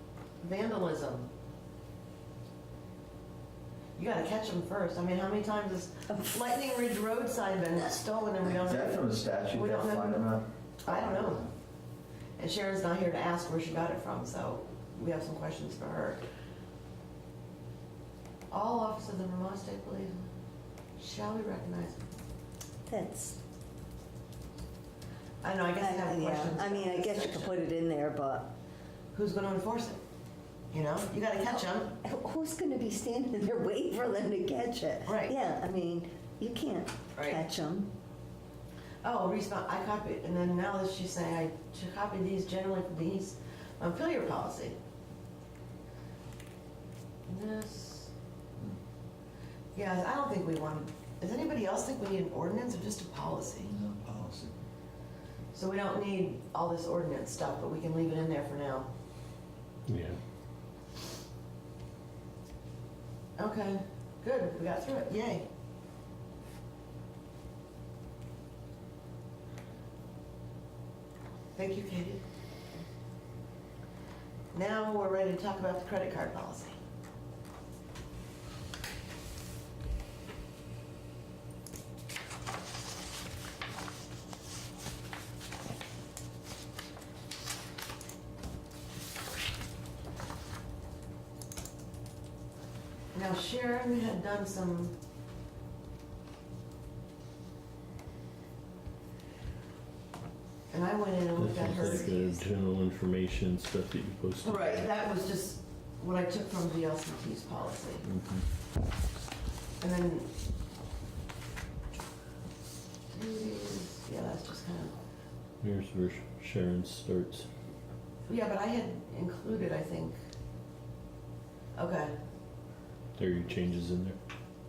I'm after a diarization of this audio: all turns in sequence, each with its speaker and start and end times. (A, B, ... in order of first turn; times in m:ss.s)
0:00.4-0:01.3 A
0:04.0-0:10.3 A
0:08.6-0:11.5 B
0:10.8-0:11.5 A
0:12.4-0:16.2 A
0:18.5-0:20.3 A
0:21.0-0:22.0 A
0:22.9-0:23.4 C
0:25.4-0:27.6 A
0:25.8-0:28.5 C
0:29.1-0:30.0 A
0:30.7-0:32.0 A
0:31.5-0:37.9 C
0:35.0-0:35.3 A
0:37.1-0:37.5 A
0:39.0-0:44.8 A
0:47.3-0:48.1 A
0:49.8-0:53.7 A
0:53.7-0:54.6 B
0:55.5-0:58.9 A
0:59.9-1:00.2 D
1:03.4-1:05.5 A
1:11.6-1:12.2 A
1:14.5-1:16.8 A
1:33.1-1:35.0 A
1:40.7-1:42.4 A
1:41.3-1:44.9 D
1:44.4-1:48.1 A
1:48.1-1:48.4 D
1:49.8-1:50.3 A
1:53.1-1:55.0 A
1:55.6-1:57.5 D
1:58.3-2:00.2 A
2:01.8-2:02.2 A
2:03.2-2:04.2 D